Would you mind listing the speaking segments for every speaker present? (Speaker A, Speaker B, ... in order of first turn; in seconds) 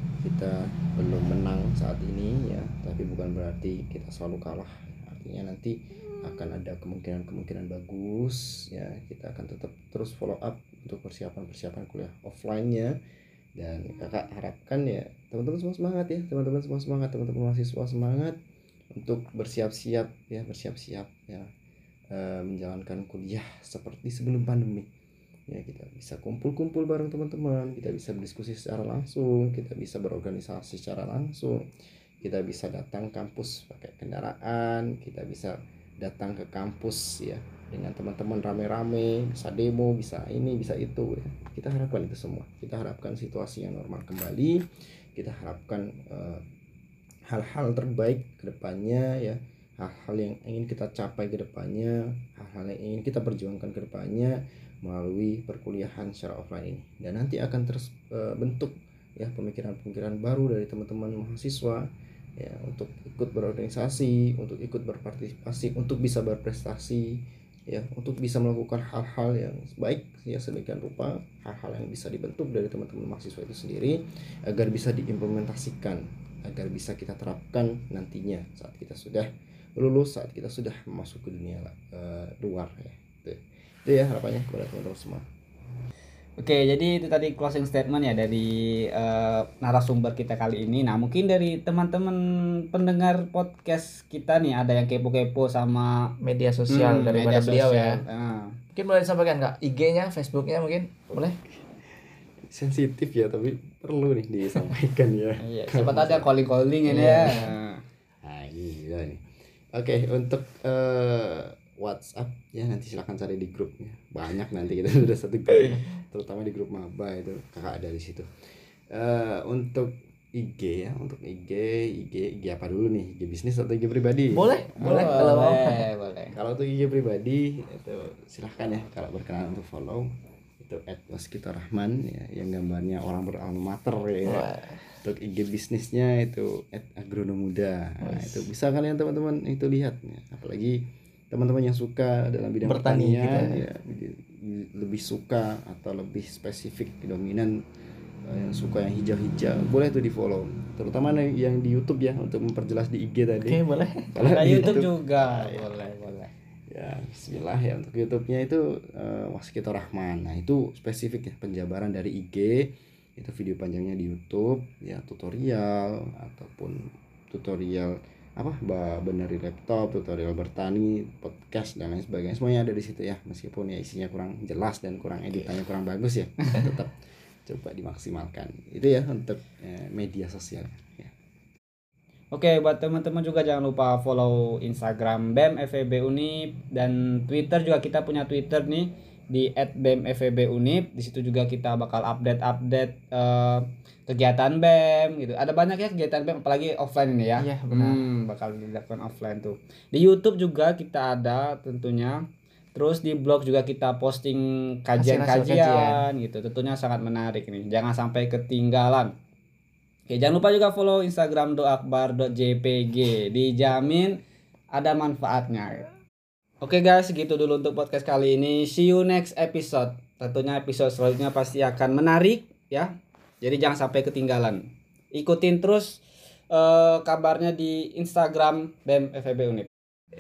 Speaker A: 0.2-12.9, 13.6-18.4, 18.9-21.5, 22.1-24.9, 25.5-31.6, 32.2-44.6, 45.1-46.4, 47.3-61.9, 62.4-85.3, 101.1-106.3, 108.2-109.2, 109.7-118.3, 118.9-125.2, 126.3-130.1, 130.6-134.5, 135.0-147.5, 148.2-153.6, 154.1-155.8, 156.7-176.9, 177.5-181.1
Speaker B: 86.4-96.1, 96.7-98.6, 105.4-107.8, 124.8-126.4, 154.3-156.3, 182.3-202.2, 202.8-209.1, 210.1-214.2, 214.7-215.9, 216.6-226.0, 226.5-229.7
Speaker C: 96.2-98.0, 98.8-101.4, 106.9-107.5, 124.3-125.9, 134.2-134.8, 138.0-138.5, 142.7-143.6, 153.4-154.7, 197.4-198.0, 205.0-206.0